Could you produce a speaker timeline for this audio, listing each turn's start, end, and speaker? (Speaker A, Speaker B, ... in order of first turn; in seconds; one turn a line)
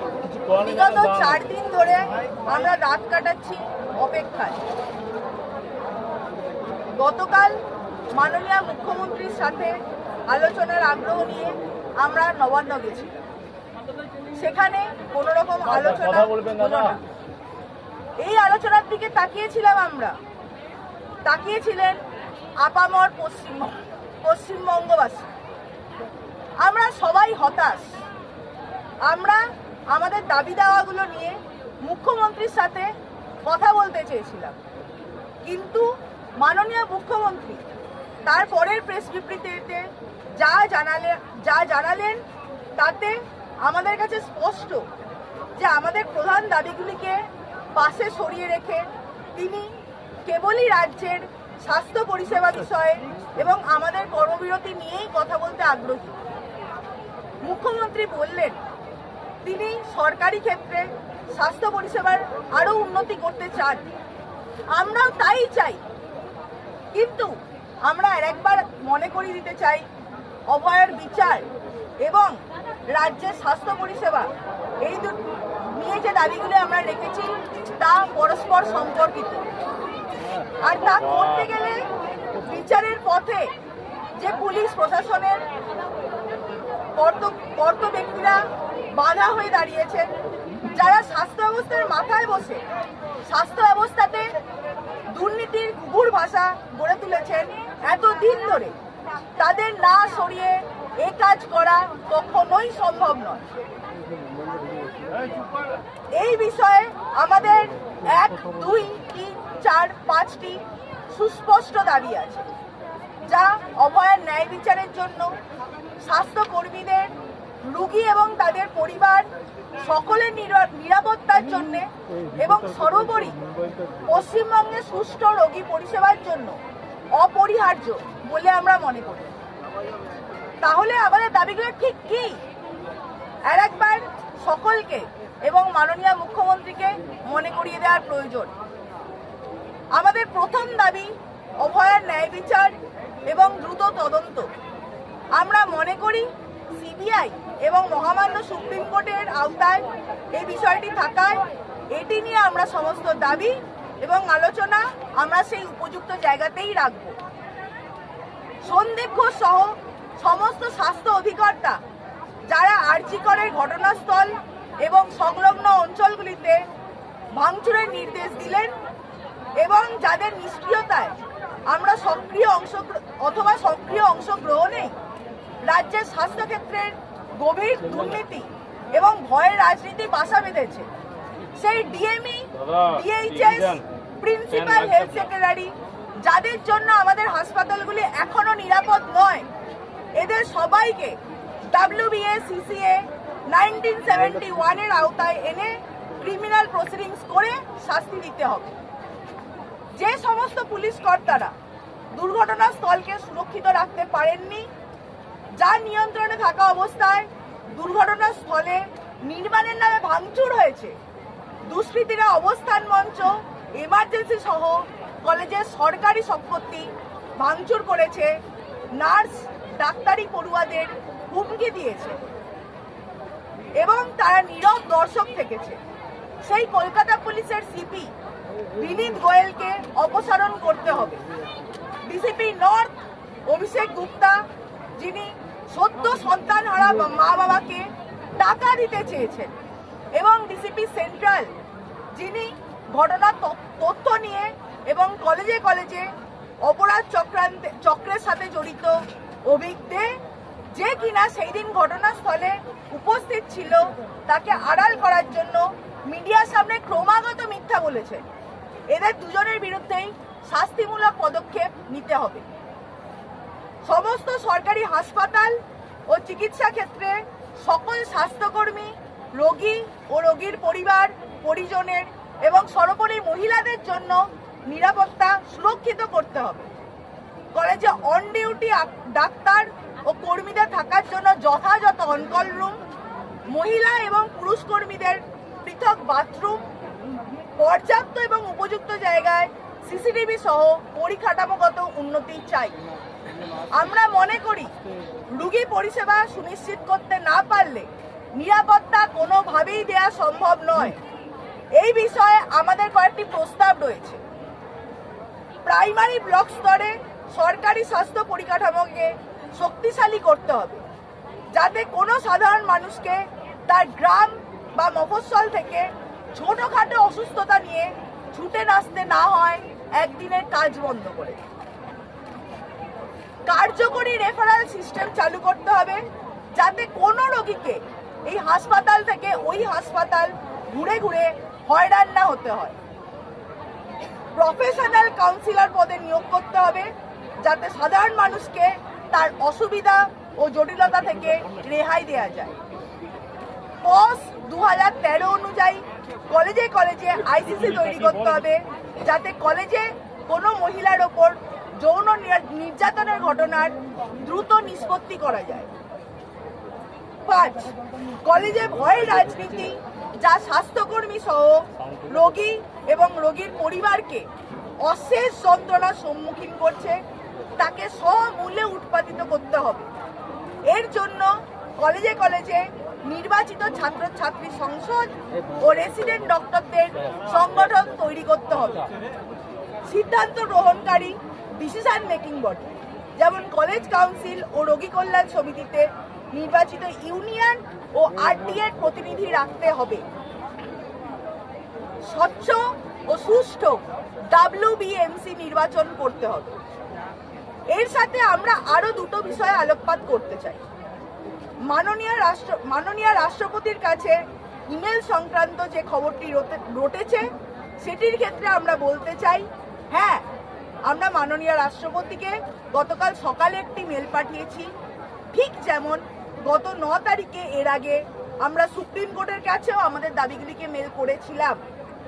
Speaker A: 0.4-4.6
Speaker A: 6.9-7.6
Speaker A: 8.1-9.8
Speaker A: 10.3-13.2
Speaker A: 14.3-17.0
Speaker A: 18.2-20.2
Speaker A: 21.2-22.0
Speaker A: 22.6-25.3
Speaker A: 26.6-27.9
Speaker A: 29.0-34.6
Speaker A: 35.4-37.6
Speaker A: 38.2-42.2
Speaker A: 42.8-44.8
Speaker A: 45.6-56.1
Speaker A: 57.4-58.6
Speaker A: 59.4-63.9
Speaker A: 64.7-65.8
Speaker A: 66.9-69.8
Speaker A: 70.5-71.5
Speaker A: 72.0-79.5
Speaker A: 80.6-81.9
Speaker A: 82.4-83.5
Speaker A: 84.2-85.5
Speaker A: 86.9-90.1
Speaker A: 90.6-92.6
Speaker A: 93.2-94.3
Speaker A: 95.1-98.7
Speaker A: 99.4-103.5
Speaker A: 106.1-112.5
Speaker A: 113.2-115.4
Speaker A: 116.0-123.4
Speaker A: 124.0-126.6
Speaker A: 127.1-129.3
Speaker A: 130.6-132.4
Speaker A: 133.5-138.5
Speaker A: 139.9-144.5
Speaker A: 145.3-157.2
Speaker A: 158.6-161.8
Speaker A: 162.5-166.7
Speaker A: 167.3-168.8
Speaker A: 169.6-171.2
Speaker A: 171.7-174.9
Speaker A: 175.6-180.9
Speaker A: 181.6-189.5
Speaker A: 190.1-191.2
Speaker A: 191.7-198.8
Speaker A: 199.9-201.5
Speaker A: 202.1-204.7
Speaker A: 205.6-211.0
Speaker A: 211.7-218.4
Speaker A: 219.0-222.2
Speaker A: 223.8-225.8
Speaker A: 226.4-228.1
Speaker A: 228.7-231.2
Speaker A: 232.0-239.5
Speaker A: 240.1-241.5
Speaker A: 242.1-246.1
Speaker A: 246.6-250.2
Speaker A: 250.7-258.3
Speaker A: 258.9-262.4
Speaker A: 263.8-276.7
Speaker A: 277.5-282.8
Speaker A: 283.5-286.7
Speaker A: 287.6-292.7
Speaker A: 293.7-294.7
Speaker A: 295.3-301.0
Speaker A: 301.7-304.2
Speaker A: 305.6-310.8
Speaker A: 311.5-321.4
Speaker A: 323.4-332.8
Speaker A: 334.3-342.6
Speaker A: 343.8-355.7
Speaker A: 357.2-364.3
Speaker A: 364.8-367.0
Speaker A: 367.6-369.9
Speaker A: 370.6-378.9
Speaker A: 379.9-390.0
Speaker A: 392.1-396.6
Speaker A: 397.7-400.6
Speaker A: 401.6-410.2
Speaker A: 410.9-414.7
Speaker A: 415.3-421.6